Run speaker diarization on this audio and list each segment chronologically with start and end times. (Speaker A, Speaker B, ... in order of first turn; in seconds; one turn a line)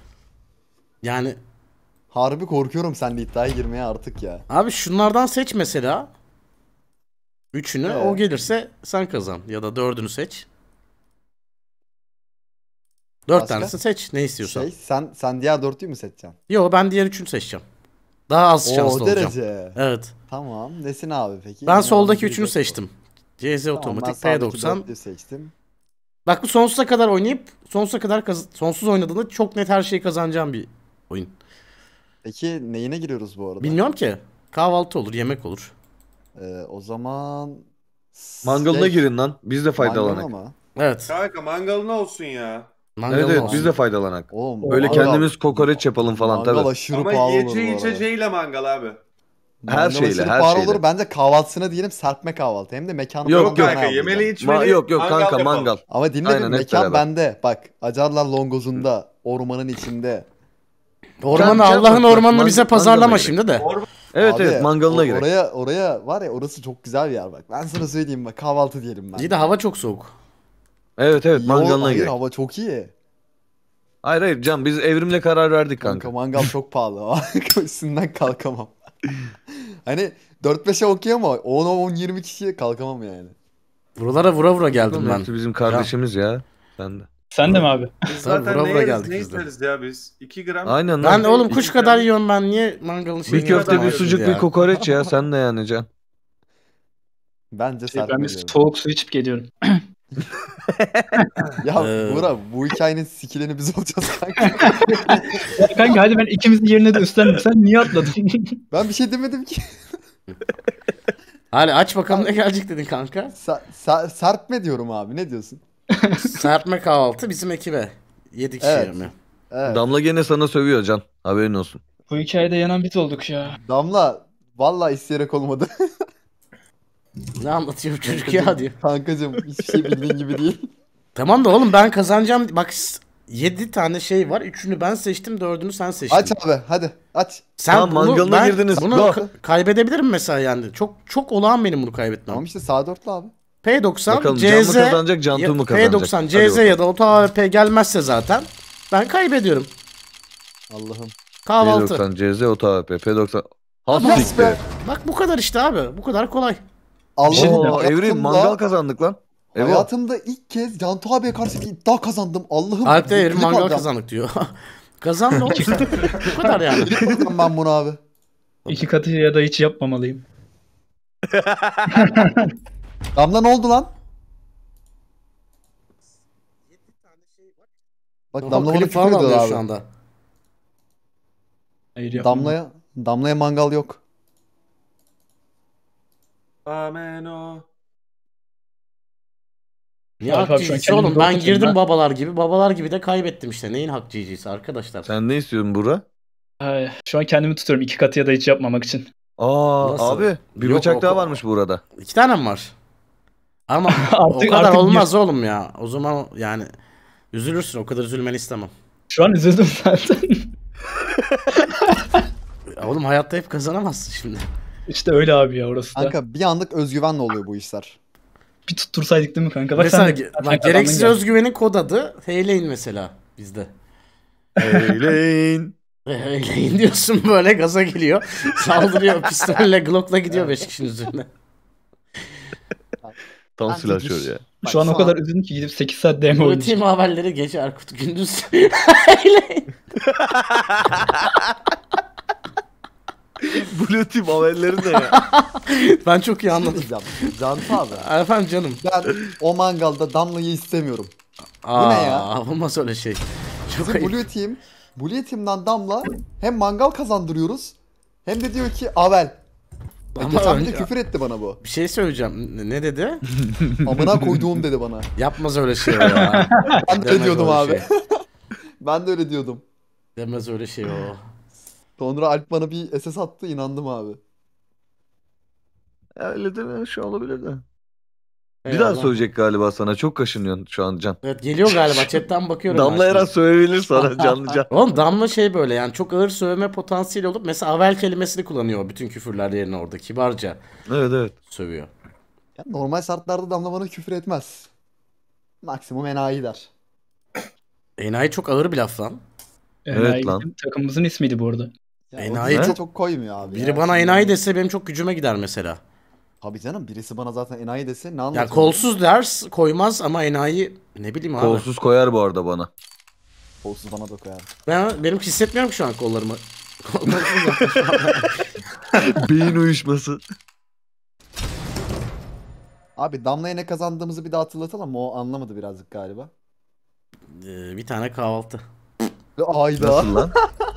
Speaker A: 1.0-1.4
Speaker B: 2.1-4.4
Speaker A: 4.5-6.1
Speaker A: 7.5-10.4
Speaker B: 7.8-8.2
Speaker A: 13.3-14.7
Speaker B: 13.3-13.8
Speaker B: 14.4-16.4
Speaker A: 16.5-17.6
Speaker A: 18.3-20.1
Speaker B: 18.6-19.8
Speaker B: 20.3-22.8
Speaker A: 21.6-24.8
Speaker B: 23.7-25.5
Speaker A: 26.2-31.3
Speaker B: 32.2-33.8
Speaker A: 33.6-35.7
Speaker B: 36.4-39.1
Speaker C: 38.4-40.3
Speaker B: 39.8-40.5
Speaker A: 40.8-41.1
Speaker D: 41.1-42.7
Speaker A: 43.0-43.7
Speaker C: 43.1-46.7
Speaker B: 43.3-43.7
Speaker B: 44.3-48.0
Speaker E: 44.6-45.2
Speaker D: 46.9-49.0
Speaker B: 49.6-54.3
Speaker C: 49.7-50.8
Speaker C: 53.2-53.8
Speaker D: 53.3-55.8
Speaker C: 54.4-57.0
Speaker B: 55.9-60.3
Speaker A: 61.2-63.7
Speaker C: 61.3-63.3
Speaker D: 63.6-63.9
Speaker C: 64.1-65.3
Speaker B: 64.2-69.3
Speaker A: 69.1-70.1
Speaker C: 71.0-72.1
Speaker B: 71.3-72.9
Speaker C: 74.0-76.2
Speaker B: 75.8-78.7
Speaker B: 79.8-83.3
Speaker A: 84.0-85.9
Speaker C: 84.8-87.1
Speaker E: 87.3-87.9
Speaker D: 87.5-92.1
Speaker A: 88.2-89.5
Speaker C: 90.6-91.3
Speaker A: 91.0-94.5
Speaker C: 93.3-95.9
Speaker D: 93.3-94.4
Speaker B: 97.5-98.5
Speaker E: 97.9-99.8
Speaker C: 100.7-101.0
Speaker B: 101.6-105.2
Speaker A: 101.8-102.3
Speaker E: 104.4-108.6
Speaker B: 108.7-109.6
Speaker A: 111.5-113.3
Speaker B: 113.3-115.6
Speaker E: 116.0-116.4
Speaker A: 116.3-119.1
Speaker B: 118.6-119.8
Speaker C: 119.7-121.8
Speaker E: 122.1-123.6
Speaker B: 123.5-125.7
Speaker A: 127.4-128.7
Speaker B: 128.0-130.7
Speaker A: 131.1-136.3
Speaker B: 136.1-137.4
Speaker A: 137.6-142.4
Speaker C: 137.7-139.2
Speaker B: 138.7-139.3
Speaker B: 142.3-143.3
Speaker A: 143.6-149.7
Speaker C: 144.1-146.8
Speaker B: 150.7-151.1
Speaker A: 151.4-152.0
Speaker C: 151.6-154.5
Speaker B: 153.9-154.6
Speaker A: 153.9-156.6
Speaker B: 157.2-158.6
Speaker E: 157.3-157.8
Speaker C: 157.3-159.9
Speaker B: 159.5-163.9
Speaker A: 162.8-167.0
Speaker E: 165.5-166.5
Speaker B: 166.8-168.0
Speaker E: 168.7-170.2
Speaker C: 171.3-172.2
Speaker E: 171.9-172.5
Speaker B: 173.1-173.9
Speaker A: 176.7-177.6
Speaker B: 178.3-179.6
Speaker A: 178.4-179.8
Speaker E: 181.9-182.5
Speaker B: 182.2-184.0
Speaker D: 186.7-187.7
Speaker A: 190.2-195.1
Speaker E: 190.2-191.8
Speaker C: 195.0-196.0
Speaker E: 196.6-199.1
Speaker C: 199.4-201.8
Speaker A: 199.8-201.4
Speaker A: 202.0-202.7
Speaker A: 203.7-206.7
Speaker E: 203.9-205.1
Speaker A: 207.3-208.7
Speaker E: 209.1-210.4
Speaker A: 212.8-214.5
Speaker E: 214.9-216.1
Speaker B: 215.9-218.0
Speaker E: 218.7-221.2
Speaker A: 219.7-223.7
Speaker C: 224.6-225.7
Speaker A: 226.1-231.3
Speaker C: 233.6-234.5
Speaker B: 233.7-235.2
Speaker E: 234.6-236.8
Speaker A: 236.4-239.7
Speaker C: 240.0-241.3
Speaker C: 243.4-245.2
Speaker A: 245.1-246.9
Speaker B: 246.5-248.1
Speaker A: 248.0-248.8
Speaker B: 248.8-251.1
Speaker A: 251.6-254.2
Speaker B: 251.7-252.3
Speaker B: 253.8-259.4
Speaker B: 260.1-261.6
Speaker A: 260.2-260.9
Speaker A: 261.6-263.2
Speaker C: 263.4-264.4
Speaker B: 263.8-265.1
Speaker A: 265.2-267.9
Speaker E: 266.4-266.8
Speaker B: 266.9-267.9
Speaker B: 268.8-269.6
Speaker A: 270.1-271.2
Speaker B: 272.0-274.2
Speaker C: 276.2-277.6
Speaker A: 278.6-279.2
Speaker C: 278.7-281.2
Speaker A: 281.2-283.3
Speaker C: 282.7-284.7
Speaker B: 284.2-284.6
Speaker A: 284.7-290.6
Speaker C: 290.9-291.3
Speaker A: 291.5-291.9
Speaker B: 292.6-294.7
Speaker B: 295.6-296.7
Speaker A: 298.0-299.2
Speaker E: 299.9-301.7
Speaker C: 299.9-300.4
Speaker B: 302.1-304.4
Speaker A: 302.2-302.8
Speaker C: 302.5-302.8
Speaker A: 303.4-305.8
Speaker B: 306.4-308.9
Speaker A: 308.3-311.7
Speaker C: 311.4-312.7
Speaker B: 313.6-314.5
Speaker A: 314.7-318.4
Speaker C: 319.0-320.2
Speaker B: 322.9-326.3
Speaker A: 327.3-328.6
Speaker B: 329.4-330.4
Speaker C: 329.8-330.3